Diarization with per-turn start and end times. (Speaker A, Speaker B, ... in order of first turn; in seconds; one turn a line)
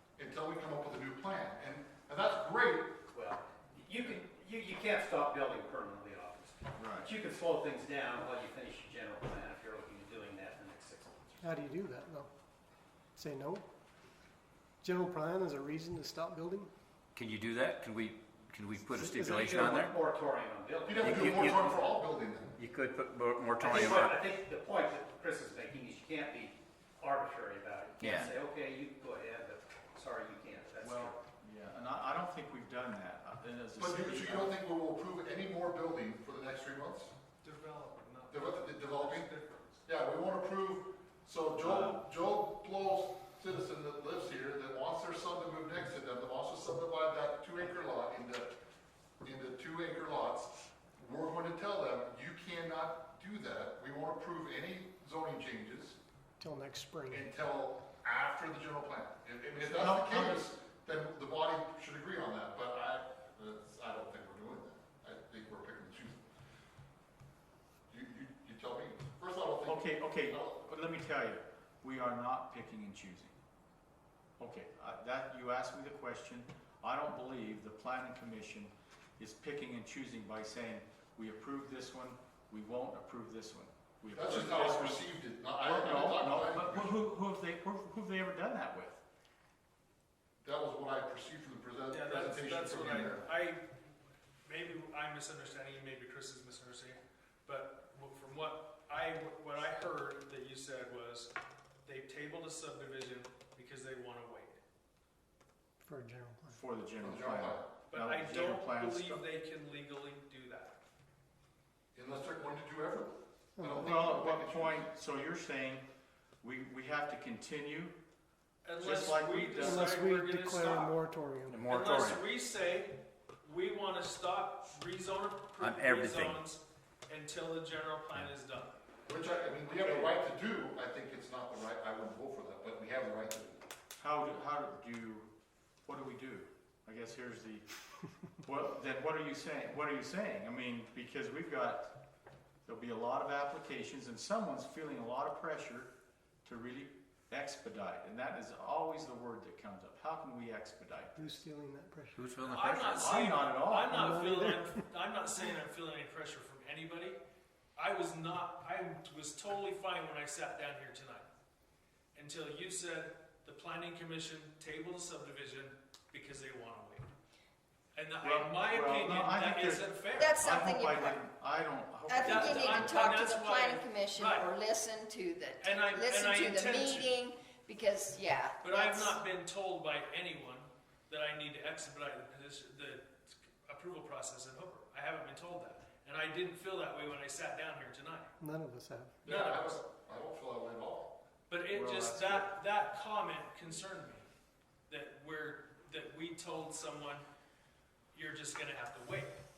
Speaker A: 0.2-2.9
Speaker B: 3.1-11.5
Speaker C: 6.8-7.1
Speaker D: 11.4-12.3
Speaker D: 13.1-13.6
Speaker D: 14.8-16.7
Speaker E: 17.1-19.9
Speaker D: 18.9-19.8
Speaker B: 19.4-21.6
Speaker A: 20.8-22.5
Speaker E: 21.0-21.8
Speaker E: 22.5-24.2
Speaker B: 23.6-31.2
Speaker E: 28.0-28.3
Speaker C: 30.8-34.6
Speaker A: 33.8-37.1
Speaker F: 37.4-39.8
Speaker A: 38.3-39.3
Speaker A: 39.9-48.5
Speaker C: 41.6-42.1
Speaker A: 49.2-56.0
Speaker D: 56.4-57.3
Speaker A: 57.1-66.3
Speaker C: 59.6-60.5
Speaker A: 67.9-70.6
Speaker C: 69.7-73.3
Speaker C: 74.4-89.0
Speaker A: 84.1-87.0
Speaker A: 90.4-93.2
Speaker F: 91.9-93.6
Speaker F: 94.5-101.3
Speaker F: 101.8-104.6
Speaker D: 105.8-106.6
Speaker C: 106.5-109.2
Speaker A: 107.0-107.7
Speaker F: 107.9-110.7
Speaker A: 111.9-114.9
Speaker D: 113.6-114.0
Speaker C: 113.8-115.8
Speaker C: 116.4-118.0
Speaker F: 118.6-121.0
Speaker C: 118.8-119.9
Speaker D: 119.6-121.6
Speaker E: 121.5-122.2
Speaker F: 121.6-128.8
Speaker E: 125.6-126.4
Speaker A: 129.1-133.6
Speaker C: 129.8-130.1
Speaker C: 134.0-135.3
Speaker C: 135.8-137.7
Speaker C: 138.4-141.9
Speaker C: 142.6-145.9
Speaker C: 146.4-151.4
Speaker D: 151.2-152.4
Speaker E: 152.1-153.1
Speaker F: 152.4-157.2
Speaker C: 152.9-154.0
Speaker D: 153.8-154.8
Speaker F: 157.8-161.3
Speaker F: 162.1-167.1
Speaker F: 167.9-170.4
Speaker C: 168.2-173.1
Speaker G: 170.2-171.2
Speaker G: 172.1-179.2
Speaker F: 172.2-174.5
Speaker F: 175.6-177.2
Speaker F: 178.6-188.3
Speaker D: 188.4-189.2
Speaker A: 189.2-191.1
Speaker F: 189.2-189.8
Speaker F: 191.5-194.3
Speaker C: 191.7-192.5
Speaker F: 194.9-197.2
Speaker F: 198.1-199.3